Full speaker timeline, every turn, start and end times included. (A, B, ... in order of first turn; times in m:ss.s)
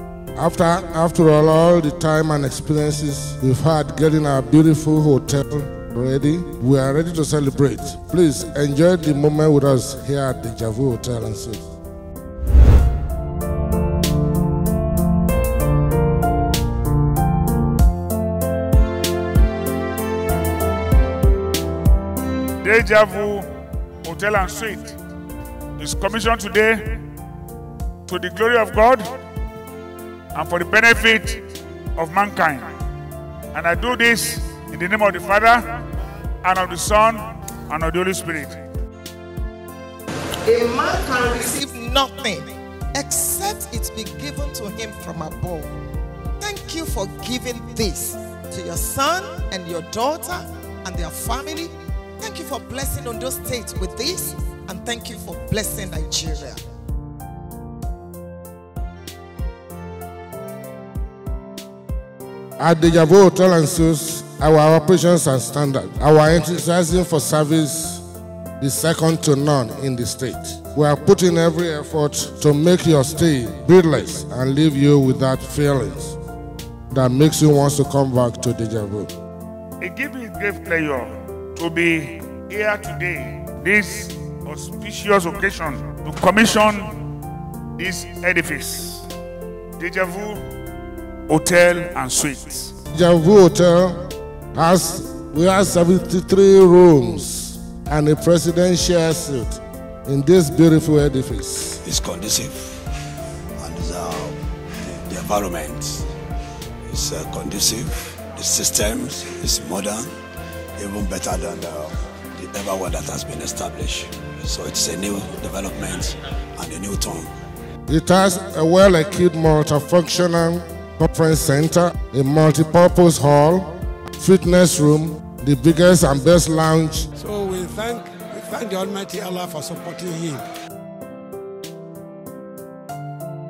0:00.4-0:11.7 A
0:22.6-0:23.5 B
0:24.0-0:25.0 B
0:25.8-0:27.0 B
0:28.1-0:29.1 B
0:30.3-0:31.4 B
0:32.0-0:32.7 B
0:33.5-0:35.7 B
0:36.4-0:38.6 B
0:40.4-0:45.7 C
0:46.4-0:56.6 C
1:02.6-1:08.0 A
1:08.6-1:16.2 A
1:16.9-1:19.1 A
1:19.8-1:27.0 B
1:27.8-1:29.0 B
1:29.8-1:30.4 B
1:31.3-1:32.7 B
1:32.9-1:41.8 A
1:41.8-1:42.7 D
1:43.6-1:46.1 D
1:46.9-1:50.2 D
1:50.8-1:57.3 D
1:57.9-2:07.1 A
2:07.2-2:10.4 E